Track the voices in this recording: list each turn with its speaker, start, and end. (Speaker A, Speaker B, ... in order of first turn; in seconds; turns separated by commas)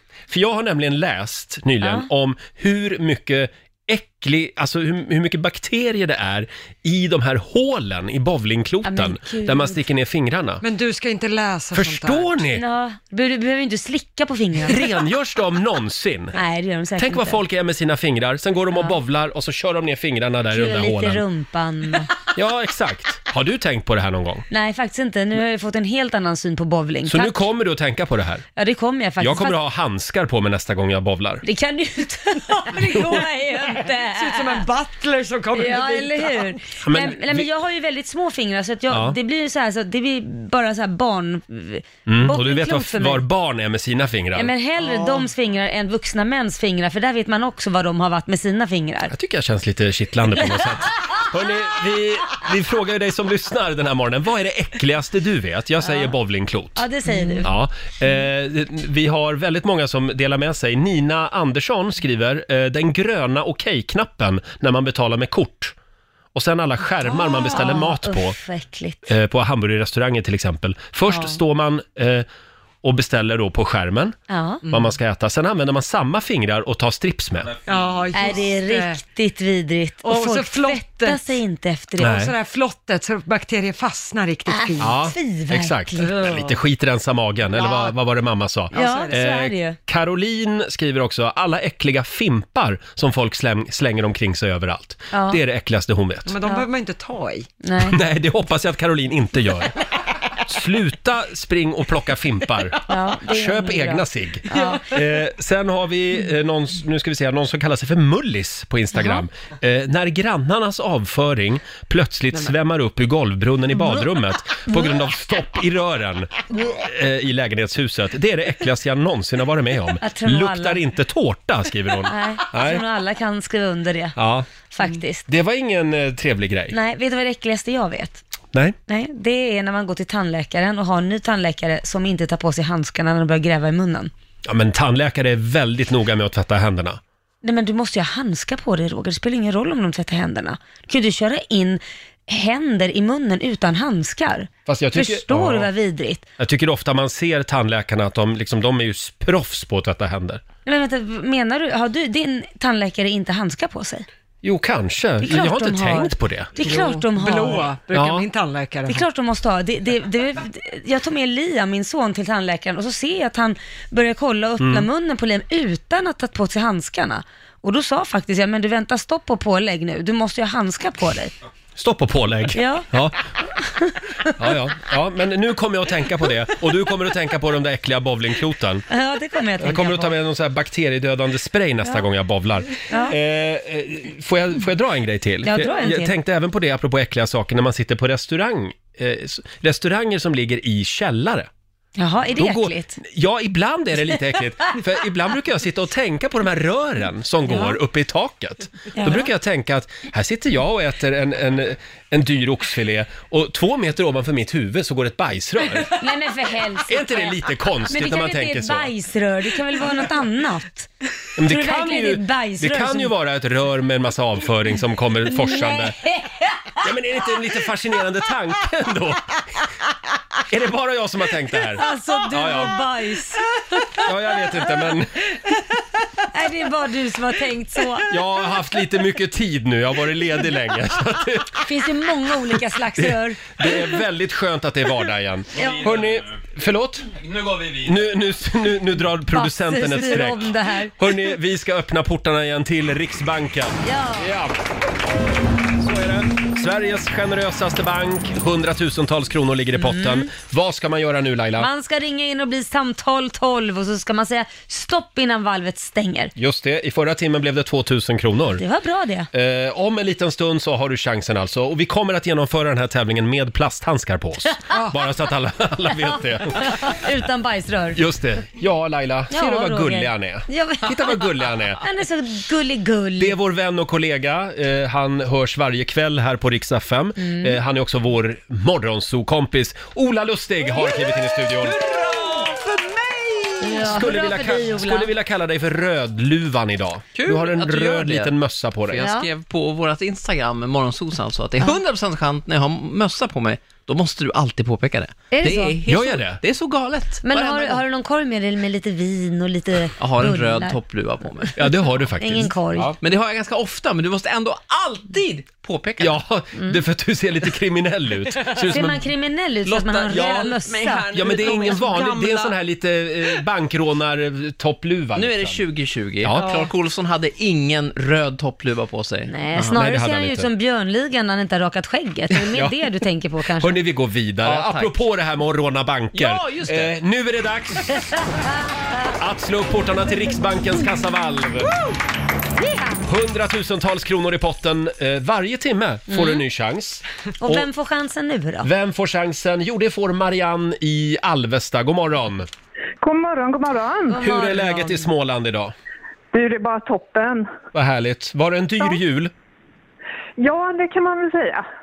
Speaker A: 0.3-10.6, Speaker B: 1.8-2.1, Speaker B: 8.8-9.8, Speaker C: 10.6-12.3, Speaker A: 11.7-12.6, Speaker B: 12.6-14.8, Speaker A: 14.7-16.4, Speaker B: 16.4-17.4, Speaker A: 17.0-21.2, Speaker B: 20.5-22.1, Speaker A: 22.3-24.4, Speaker B: 24.5-27.4, Speaker A: 27.1-28.4, Speaker B: 28.6-29.6, Speaker A: 29.2-31.4, Speaker B: 31.4-34.7, Speaker C: 34.1-36.6, Speaker B: 35.5-43.2, Speaker A: 36.8-37.5, Speaker A: 38.9-39.2, Speaker A: 42.1-44.5, Speaker B: 44.3-49.1, Speaker C: 44.8-45.3, Speaker A: 49.1-56.9, Speaker B: 55.8-56.1, Speaker B: 56.8-57.5, Speaker A: 57.4-65.7, Speaker A: 66.3-68.4, Speaker B: 67.1-69.0, Speaker A: 69.1-72.3, Speaker A: 72.8-74.2, Speaker B: 74.3-74.6, Speaker A: 74.7-77.5, Speaker D: 77.4-78.1, Speaker C: 77.7-79.0, Speaker B: 78.1-82.2, Speaker C: 80.0-81.4, Speaker C: 82.0-85.0, Speaker A: 82.0-82.3, Speaker B: 84.5-86.1, Speaker A: 84.8-96.4, Speaker C: 86.1-86.5, Speaker C: 87.5-88.0, Speaker C: 88.7-89.2, Speaker B: 88.7-89.8, Speaker B: 95.1-95.4, Speaker C: 96.3-97.5, Speaker B: 97.6-98.0, Speaker A: 97.8-99.8, Speaker A: 100.5-122.8, Speaker B: 102.9-104.8, Speaker C: 104.5-104.8, Speaker B: 109.0-109.2, Speaker B: 120.0-120.8, Speaker B: 122.1-124.2, Speaker A: 124.2-124.5, Speaker B: 124.7-125.3, Speaker A: 125.3-126.8, Speaker B: 126.7-128.2, Speaker B: 128.9-134.1, Speaker A: 134.5-137.0, Speaker B: 137.4-146.3, Speaker A: 144.7-145.7, Speaker A: 146.4-150.4, Speaker B: 150.7-154.1, Speaker A: 154.4-156.6, Speaker B: 155.2-157.7, Speaker C: 156.6-159.1, Speaker A: 157.9-158.2, Speaker B: 158.9-171.3, Speaker A: 164.6-164.9, Speaker A: 171.8-173.2, Speaker B: 172.6-172.9, Speaker B: 173.4-174.3, Speaker A: 174.4-178.9, Speaker B: 178.9-180.2, Speaker A: 179.6-191.5, Speaker B: 182.9-183.2, Speaker B: 185.4-186.1, Speaker B: 192.0-193.0, Speaker A: 192.4-205.9, Speaker B: 197.4-197.8, Speaker B: 199.0-199.3, Speaker B: 205.9-210.9, Speaker A: 206.9-208.9, Speaker A: 211.4-216.0, Speaker B: 211.4-213.1, Speaker B: 215.3-216.7, Speaker A: 216.8-219.4, Speaker A: 220.5-222.8, Speaker B: 221.8-224.0, Speaker A: 224.0-225.2, Speaker B: 226.3-228.1, Speaker A: 228.1-231.6, Speaker B: 231.6-233.8, Speaker A: 233.0-237.1, Speaker D: 235.5-236.4, Speaker B: 235.6-235.8, Speaker D: 237.2-238.1, Speaker A: 237.8-244.5, Speaker B: 239.3-241.0, Speaker B: 243.8-244.3, Speaker A: 245.8-251.7, Speaker B: 249.8-250.3, Speaker B: 251.6-256.3, Speaker A: 256.4-258.6, Speaker B: 258.6-259.3, Speaker A: 259.3-266.9, Speaker B: 266.6-268.0, Speaker A: 267.9-271.8, Speaker B: 269.3-271.3, Speaker B: 271.8-273.4, Speaker A: 273.2-281.9, Speaker B: 277.2-277.6, Speaker E: 281.6-283.7, Speaker B: 283.6-285.1, Speaker A: 283.8-289.0, Speaker E: 287.1-288.4, Speaker E: 288.9-297.8, Speaker B: 289.0-289.3, Speaker B: 295.3-295.8, Speaker A: 295.9-296.4, Speaker B: 297.2-300.8, Speaker E: 300.0-301.5, Speaker A: 301.6-302.9, Speaker B: 302.2-302.9, Speaker E: 303.0-306.2, Speaker A: 306.0-309.0, Speaker B: 308.5-311.1, Speaker E: 309.6-312.5, Speaker A: 310.1-310.5, Speaker A: 311.1-315.6, Speaker E: 315.1-319.8, Speaker A: 316.2-316.6, Speaker B: 319.3-323.8, Speaker A: 319.7-320.5, Speaker A: 323.6-328.1, Speaker E: 324.4-325.0, Speaker E: 326.1-326.9, Speaker A: 329.2-331.7, Speaker E: 331.7-331.9, Speaker A: 333.0-337.7, Speaker B: 336.1-336.4, Speaker B: 337.4-338.7, Speaker A: 338.6-342.5, Speaker F: 343.0-344.2, Speaker B: 344.1-345.1, Speaker A: 344.2-345.7, Speaker F: 346.3-347.5, Speaker A: 347.7-349.3, Speaker F: 350.4-351.7